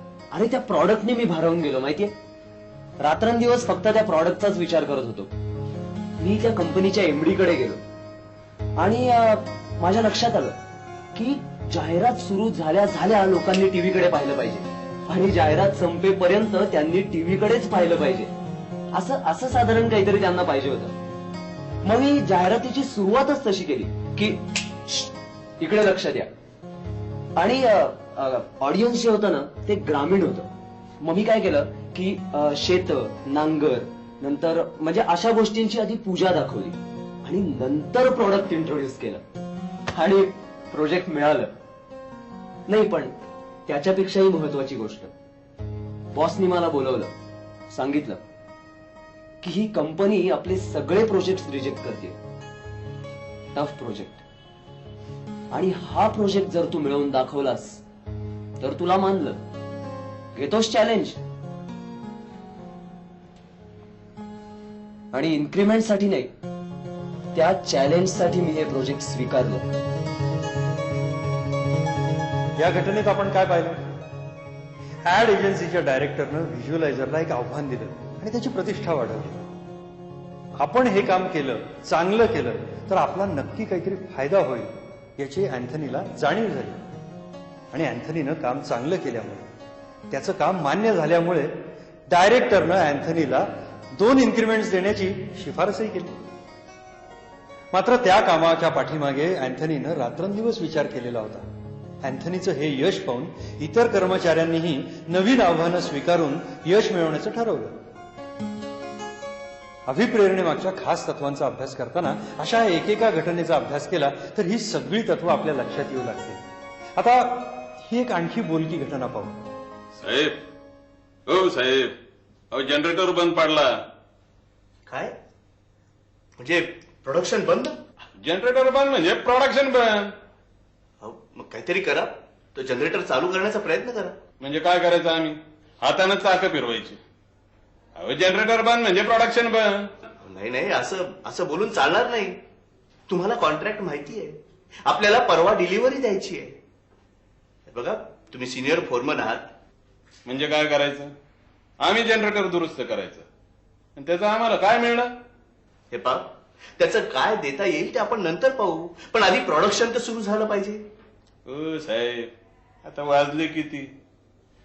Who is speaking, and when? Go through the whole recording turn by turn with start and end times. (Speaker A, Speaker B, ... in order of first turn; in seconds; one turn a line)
Speaker A: 0.3-2.1
Speaker A: 3.0-5.3
Speaker A: 6.2-7.8
Speaker A: 8.8-10.6
Speaker A: 11.1-18.3
Speaker A: 18.9-20.9
Speaker A: 21.8-25.1
Speaker A: 25.6-26.3
Speaker A: 27.4-30.5
Speaker A: 31.0-39.2
Speaker A: 39.9-41.5
Speaker A: 42.7-43.1
Speaker A: 43.6-45.1
Speaker A: 46.1-47.1
Speaker A: 47.7-48.2
Speaker A: 49.4-52.1
Speaker A: 53.5-54.2
Speaker A: 55.5-57.8
Speaker A: 58.6-59.4
Speaker A: 60.3-61.2
Speaker A: 65.1-66.3
Speaker A: 67.3-69.6
Speaker B: 72.6-73.8
Speaker B: 75.0-79.5
Speaker B: 80.6-86.8
Speaker B: 87.7-89.5
Speaker B: 90.1-96.2
Speaker B: 97.7-101.5
Speaker B: 102.0-107.8
Speaker B: 109.9-116.4
Speaker B: 117.0-119.4
Speaker C: 120.0-120.4
Speaker C: 121.3-121.9
Speaker C: 122.5-123.8
Speaker D: 124.9-125.1
Speaker D: 126.4-127.8
Speaker C: 128.2-130.1
Speaker D: 131.0-134.2
Speaker C: 134.4-137.0
Speaker C: 138.0-139.9
Speaker D: 140.2-142.4
Speaker D: 143.1-146.5
Speaker D: 147.7-149.4
Speaker C: 150.2-151.1
Speaker C: 151.8-153.2
Speaker C: 154.0-155.1
Speaker D: 155.9-156.2
Speaker D: 156.8-160.8
Speaker C: 161.4-162.3
Speaker C: 162.8-163.9